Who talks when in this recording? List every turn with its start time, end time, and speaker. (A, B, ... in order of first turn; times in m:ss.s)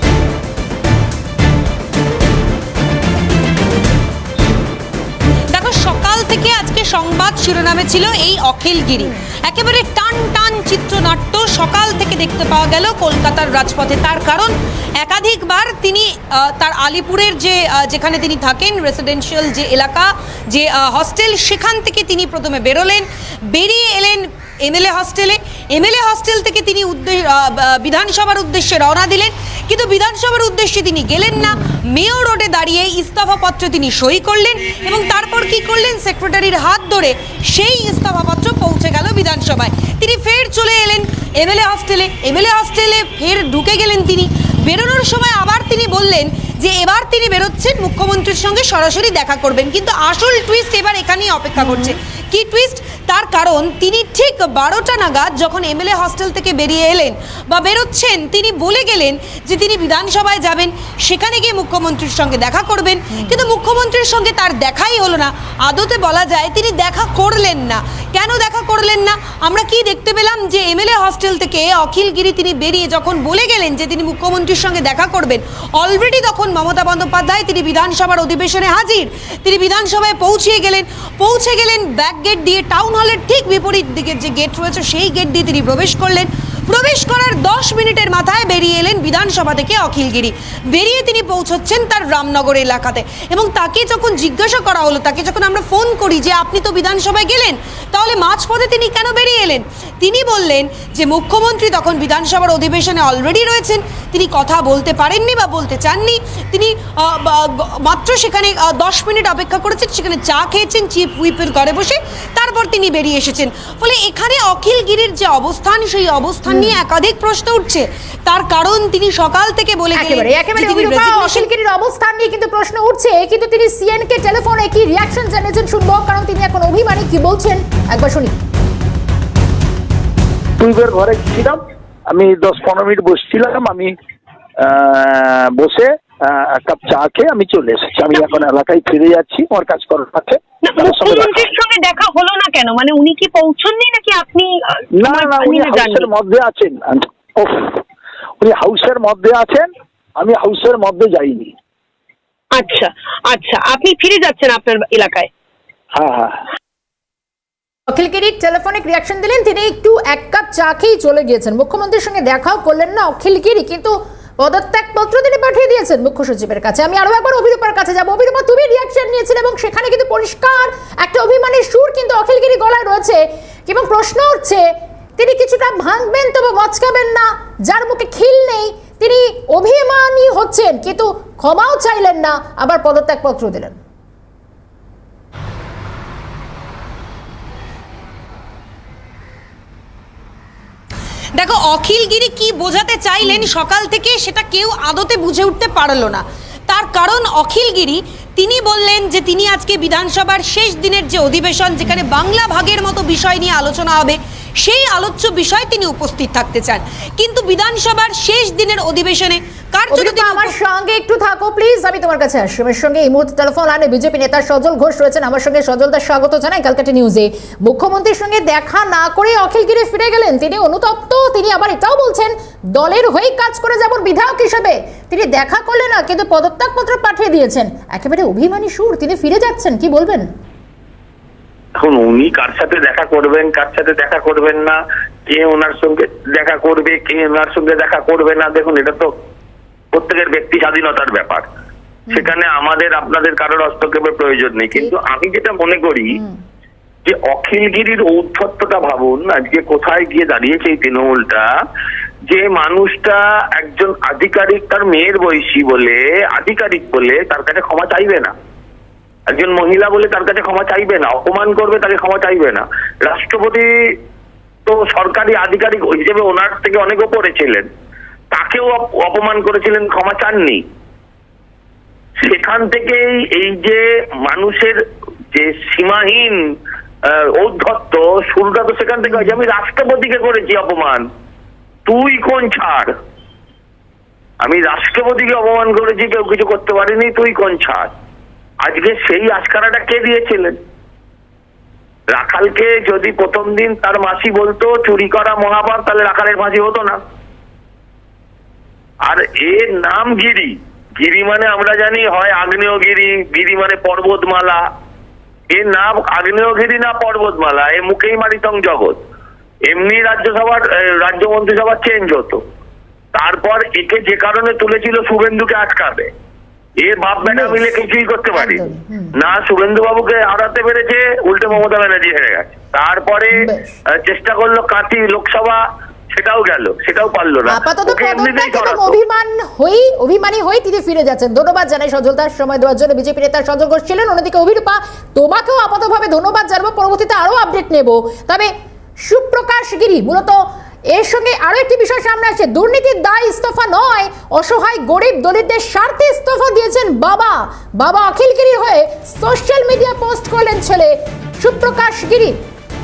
0:05.5-2:01.5 A
1:56.5-1:56.8 B
1:59.9-2:08.3 B
2:10.6-2:11.6 C
2:12.1-2:13.9 C
2:14.6-2:21.5 C
2:20.6-2:26.1 D
2:25.0-2:27.8 C
2:28.4-2:29.7 C
2:30.2-2:31.5 C
2:32.5-2:35.3 D
2:35.9-2:36.4 C
2:37.9-3:03.8 B
3:11.4-3:30.6 A
3:29.9-3:50.3 B
3:51.8-3:59.1 E
3:59.9-4:01.5 E
4:02.1-4:06.2 E
4:06.1-4:06.4 B
4:07.0-4:11.5 E
4:12.3-4:18.3 E
4:19.3-4:23.7 E
4:24.7-4:27.7 E
4:28.3-4:30.6 E
4:32.2-4:34.8 E
4:35.3-4:36.4 E
4:37.4-4:41.1 E
4:41.9-4:42.9 E
4:44.4-4:47.9 E
4:48.6-4:50.6 E
4:52.1-4:57.0 E
4:59.0-5:04.6 E
5:05.5-5:09.0 E
5:09.7-5:12.4 E
5:13.1-5:16.1 E
5:16.8-5:18.7 E
5:17.2-5:17.7 B
5:18.3-5:19.2 B
5:19.2-5:29.0 E
5:23.4-5:23.8 B
5:27.5-5:38.5 B
5:39.0-5:52.4 B